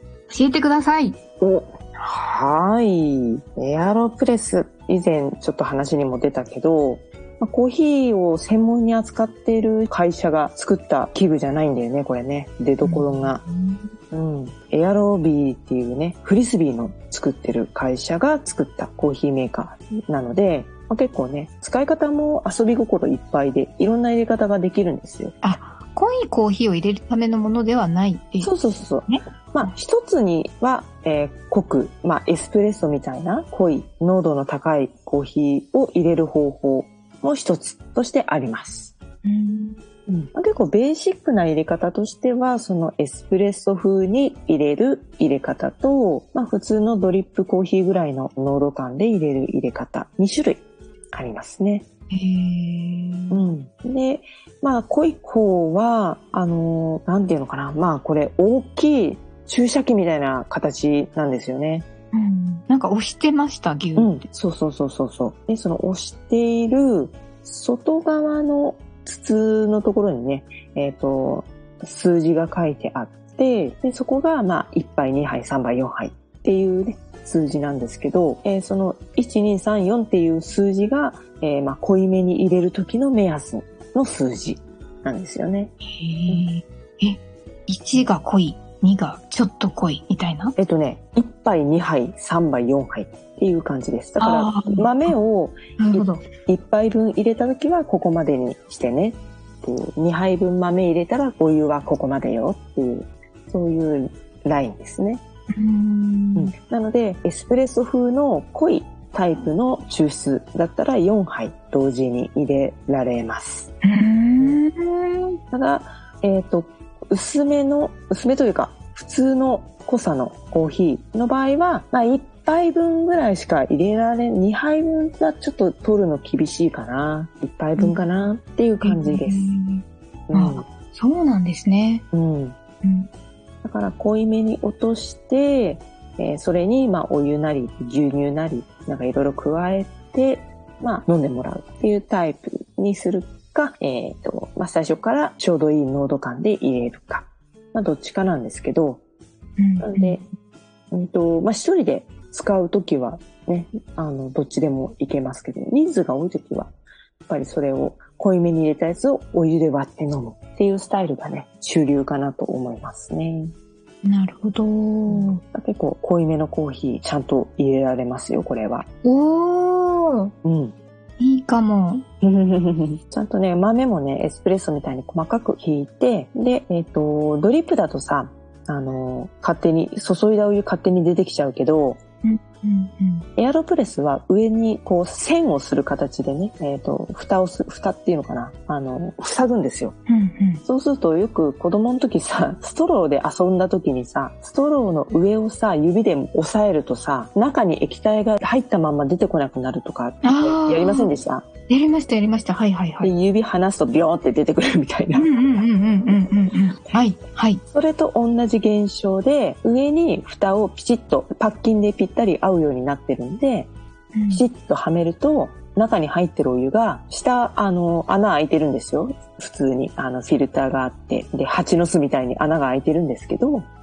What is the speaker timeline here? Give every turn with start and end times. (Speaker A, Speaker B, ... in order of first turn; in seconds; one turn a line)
Speaker A: 0.3-1.2
Speaker B: 1.4-13.4
Speaker A: 12.8-13.9
Speaker B: 14.1-25.3
Speaker A: 25.4-28.5
Speaker B: 28.4-38.9
Speaker A: 29.1-29.7
Speaker A: 39.2-39.8
Speaker B: 40.1-51.8
Speaker A: 52.1-53.4
Speaker B: 53.3-61.8
Speaker A: 62.1-64.2
Speaker B: 64.0-85.7
Speaker A: 85.8-90.5
Speaker B: 90.5-105.2
Speaker A: 94.2-95.1
Speaker A: 95.8-96.2
Speaker A: 105.5-106.5
Speaker B: 106.3-113.7
Speaker A: 113.8-115.3
Speaker B: 115.5-129.5
Speaker A: 128.8-132.0
Speaker B: 130.3-130.7
Speaker B: 132.1-132.6
Speaker A: 132.8-133.1
Speaker B: 133.6-149.0
Speaker A: 149.6-150.3
Speaker B: 149.8-150.2
Speaker B: 150.9-156.7
Speaker B: 157.3-163.5
Speaker A: 164.0-165.4
Speaker B: 165.1-168.9
Speaker A: 169.0-170.3
Speaker B: 170.4-170.7
Speaker A: 171.2-172.0
Speaker B: 172.2-182.0
Speaker A: 182.2-183.2
Speaker B: 183.4-189.9
Speaker A: 190.1-190.6
Speaker B: 190.6-201.4
Speaker A: 200.2-201.1
Speaker A: 201.7-203.1
Speaker B: 203.0-205.3
Speaker A: 205.1-207.6
Speaker B: 207.7-213.7
Speaker A: 214.1-214.4
Speaker B: 214.3-223.7